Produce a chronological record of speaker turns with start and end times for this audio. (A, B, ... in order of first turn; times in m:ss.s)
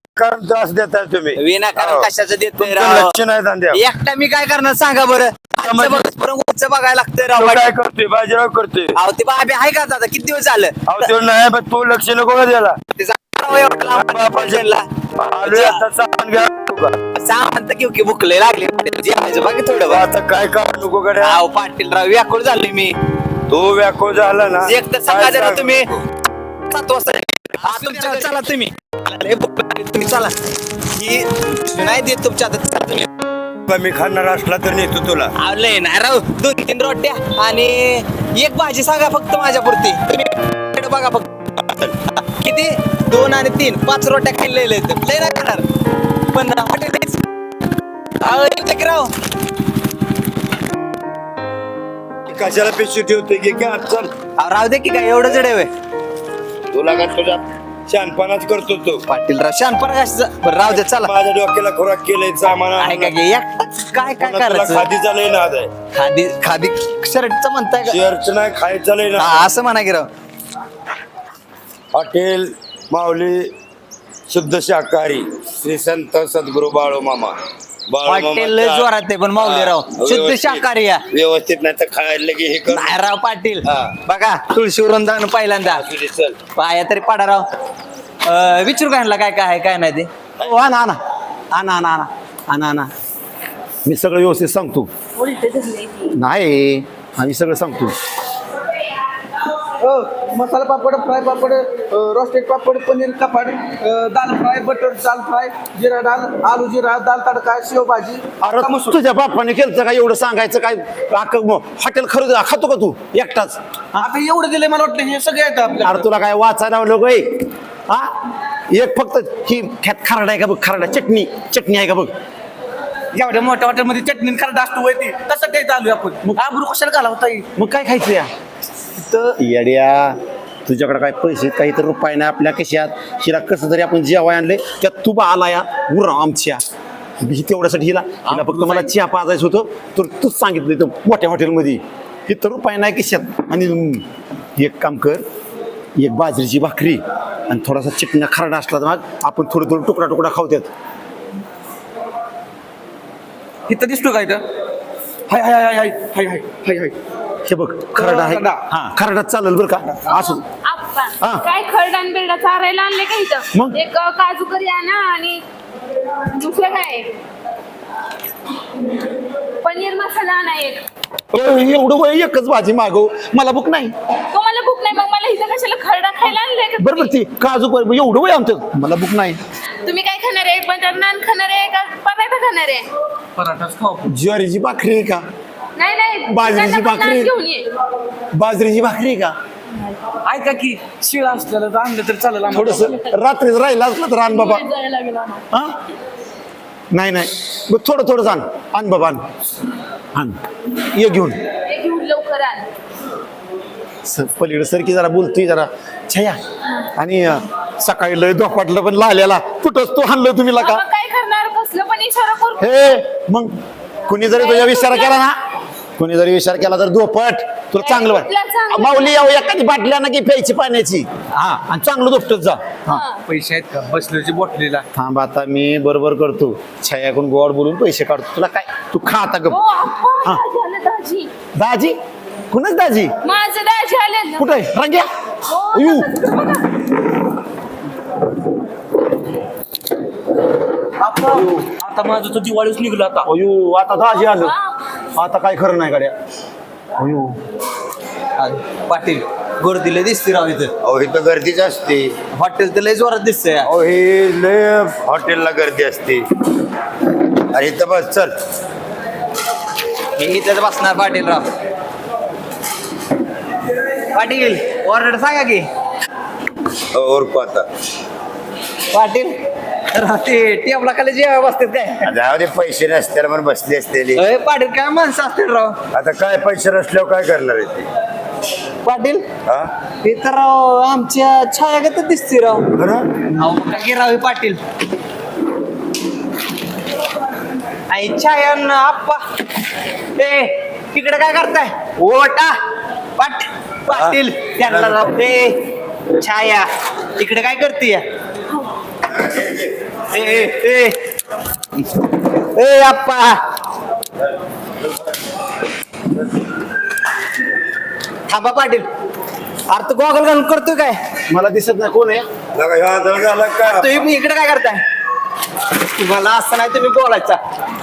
0:00.2-0:03.8 A
0:01.4-0:03.2 B
0:03.7-0:07.7 B
0:05.6-0:06.1 A
0:07.3-0:09.0 A
0:09.0-0:11.1 B
0:10.9-0:12.8 A
0:13.0-0:14.9 B
0:13.9-0:17.0 A
0:15.4-0:15.8 B
0:17.2-0:20.0 B
0:19.7-0:21.4 A
0:21.2-0:23.0 B
0:23.5-0:26.0 A
0:24.7-0:25.9 B
0:26.7-0:30.3 B
0:27.7-0:28.4 C
0:30.9-0:33.1 B
0:33.7-0:35.3 A
0:35.4-0:41.3 B
0:41.6-0:42.0 A
0:42.3-0:45.6 B
0:46.3-0:47.2 B
0:48.2-0:49.1 B
0:52.3-0:54.1 A
0:54.4-0:55.7 B
0:56.7-0:59.0 A
0:59.1-1:01.1 B
1:00.7-1:03.1 A
1:02.8-1:04.9 B
1:04.0-1:05.7 A
1:05.9-1:08.0 B
1:07.8-1:09.5 A
1:09.2-1:10.1 B
1:11.9-1:13.5 A
1:14.3-1:17.4 A
1:17.9-1:23.0 A
1:18.0-1:21.1 B
1:22.7-1:25.8 B
1:23.6-1:24.0 A
1:25.7-1:26.4 A
1:26.6-1:27.5 B
1:28.2-1:30.1 B
1:30.4-1:31.0 D
1:31.5-1:32.9 D
1:33.8-1:34.9 D
1:35.2-1:36.1 E
1:36.1-1:38.0 D
1:39.8-1:49.0 C
1:48.4-1:54.1 D
1:54.0-1:56.1 C
1:55.8-1:58.1 D
1:58.7-2:02.1 D
2:03.1-2:07.5 C
2:07.6-2:08.3 D
2:09.4-2:16.6 D
2:17.2-2:25.2 D
2:18.3-2:18.9 C
2:26.0-2:30.7 D
2:33.7-2:34.4 C
2:35.3-2:37.0 C
2:37.5-2:40.4 D
2:38.0-2:38.6 C
2:40.1-2:45.4 E
2:46.3-2:47.1 E
2:49.6-2:50.8 E
2:51.3-2:54.0 D
2:54.3-2:57.1 E
2:56.8-2:59.4 D
2:59.8-3:02.9 E
3:03.4-3:04.1 C
3:04.1-3:05.2 D
3:05.8-3:07.7 E
3:06.3-3:07.3 D
3:08.4-3:09.4 D
3:10.2-3:13.0 C
3:12.5-3:14.6 D
3:14.3-3:15.4 E
3:16.9-3:19.3 D
3:20.9-3:21.4 D
3:21.7-3:22.7 E
3:24.0-3:26.4 D
3:26.9-3:30.8 D
3:30.6-3:32.7 E
3:32.6-3:35.4 D
3:34.4-3:35.2 E
3:36.0-3:43.0 D
3:37.8-3:39.4 E
3:42.9-3:43.2 E
3:43.3-3:44.8 C
3:44.9-3:49.6 D
3:49.5-3:51.3 E
3:51.6-3:52.0 D
3:52.5-3:53.1 D
3:53.2-3:54.6 E
3:54.4-3:55.1 D
3:55.5-3:56.8 E
3:55.7-3:56.1 D
4:01.0-4:03.3 C
4:01.3-4:01.6 D
4:03.2-4:04.6 D
4:04.3-4:04.6 E
4:05.2-4:06.1 D
4:07.0-4:07.4 D
4:08.4-4:10.7 B
4:10.8-4:12.1 A
4:12.4-4:13.7 B
4:13.6-4:16.2 A
4:17.5-4:18.3 A
4:20.2-4:21.4 B
4:24.1-4:25.7 B
4:26.9-4:27.7 A
4:28.9-4:29.4 B
4:29.9-4:32.1 B
4:32.1-4:34.2 A
4:34.2-4:35.8 B
4:35.9-4:37.9 A
4:38.8-4:39.3 B
4:40.0-4:42.7 B
4:42.8-4:43.1 A
4:43.4-4:44.6 B
4:47.9-4:49.2 B
4:50.2-4:52.6 B
4:53.2-4:55.7 B
4:53.9-4:55.1 A
4:56.2-4:58.0 B
4:59.1-5:00.5 A
5:00.1-5:01.0 B
5:02.6-5:03.4 B
5:08.3-5:08.9 B
5:09.7-5:11.0 B
5:11.3-5:12.3 D
5:12.5-5:14.0 A
5:13.6-5:14.8 B
5:15.8-5:17.4 B